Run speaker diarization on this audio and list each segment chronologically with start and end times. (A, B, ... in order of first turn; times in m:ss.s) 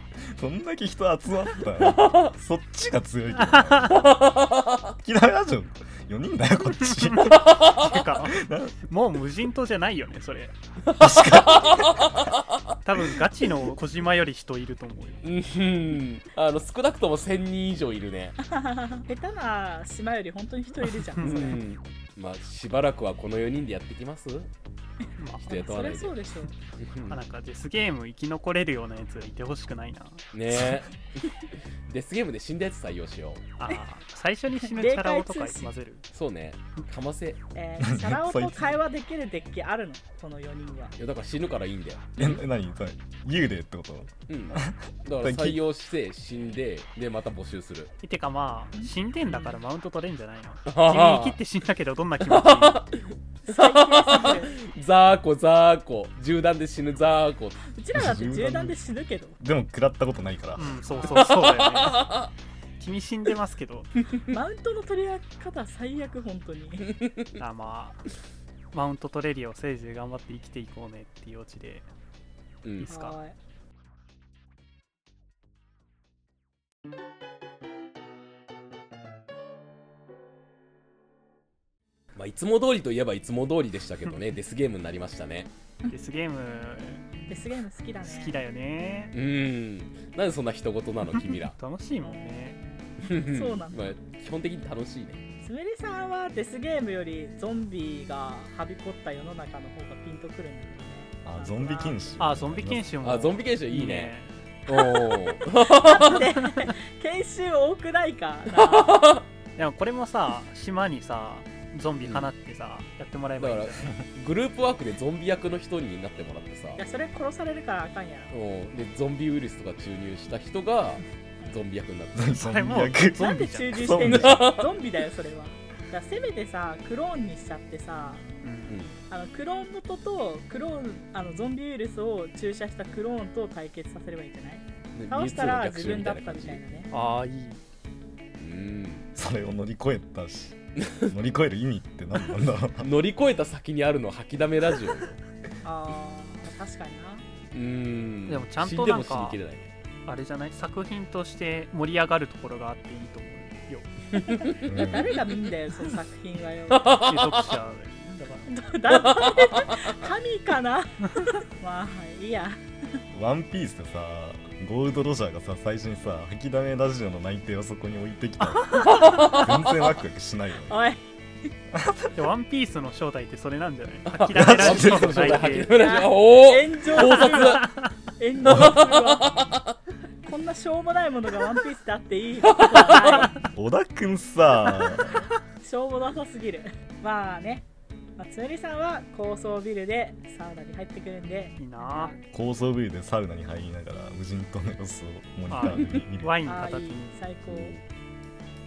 0:00.3-0:04.1 A
0:01.8-0:02.3 B
0:03.4-0:04.1 C
0:04.0-0:04.9 B
0:05.0-0:07.4 A
0:06.9-0:10.6 C
0:07.3-0:08.0 B
0:08.2-0:08.8 A
0:10.9-0:12.8 B
0:11.0-0:12.2 A
0:12.8-0:15.2 C
0:15.2-0:18.4 B
0:18.5-0:21.6 D
0:21.1-0:21.6 C
0:21.2-0:24.5 B
0:25.2-0:25.5 C
0:25.4-0:26.5 D
0:25.4-0:26.2 B
0:26.8-0:27.2 B
0:27.1-0:30.2 C
0:30.3-0:31.3 B
0:31.9-0:33.4 B
0:33.6-0:36.0 C
0:34.6-0:35.7 D
0:36.1-0:37.4 B
0:37.5-0:41.0 D
0:37.8-0:38.8 A
0:41.0-0:42.4 B
0:42.2-0:45.6 A
0:44.3-0:47.9 B
0:48.0-0:52.9 C
0:48.8-0:49.6 D
0:50.7-0:51.4 B
0:52.3-0:57.6 B
0:53.5-0:54.6 D
0:57.7-0:59.4 D
0:57.9-0:58.8 A
0:59.4-1:00.8 A
1:00.6-1:02.2 C
1:00.9-1:01.4 D
1:01.1-1:02.3 B
1:02.8-1:03.9 C
1:04.3-1:06.9 D
1:07.0-1:07.4 B
1:07.4-1:08.0 C
1:08.7-1:11.9 C
1:12.6-1:12.9 B
1:12.8-1:13.2 C
1:12.9-1:13.4 D
1:22.2-1:25.5 B
1:25.9-1:27.5 C
1:27.3-1:28.4 D
1:28.0-1:29.1 C
1:29.1-1:31.5 B
1:31.3-1:32.6 C
1:32.0-1:34.0 D
1:33.0-1:35.2 B
1:35.4-1:42.2 D
1:41.2-1:42.8 A
1:42.2-1:44.4 C
1:43.0-1:44.1 B
1:44.7-1:46.3 B
1:45.8-1:49.0 D
1:48.5-1:49.3 B
1:49.6-1:54.0 C
1:52.0-1:52.3 B
1:53.4-1:56.8 B
1:56.8-1:58.3 D
1:58.3-2:02.4 B
2:02.2-2:04.6 A
2:02.3-2:04.0 C
2:03.2-2:08.3 D
2:03.9-2:04.7 B
2:08.4-2:08.8 C
2:08.7-2:09.0 B
2:09.1-2:16.9 D
2:14.9-2:16.6 B
2:16.9-2:17.6 C
2:18.4-2:19.1 B
2:19.2-2:22.9 A
2:20.8-2:21.1 B
2:22.8-2:25.1 B
2:25.6-2:27.2 D
2:27.5-2:29.7 B
2:28.3-2:29.4 C
2:30.1-2:33.9 C
2:34.2-2:34.6 B
2:34.3-2:37.0 D
2:34.6-2:35.2 A
2:36.7-2:37.5 B
2:37.0-2:38.5 C
2:38.5-2:43.0 D
2:38.9-2:39.8 B
2:43.1-2:50.7 A
2:48.8-2:49.8 B
2:50.7-2:51.0 D
2:51.7-2:52.1 A
2:52.2-2:55.8 C
2:54.1-2:57.7 B
2:54.3-2:55.4 A
2:55.7-2:59.4 D
2:57.0-2:57.9 C
2:58.4-2:59.8 B
3:00.2-3:03.5 D
3:02.4-3:03.3 B
3:03.5-3:05.3 A
3:05.6-3:07.7 D
3:08.2-3:12.2 D
3:11.6-3:12.2 C
3:12.3-3:16.4 A
3:15.5-3:17.2 C
3:16.4-3:17.8 D
3:17.5-3:17.8 B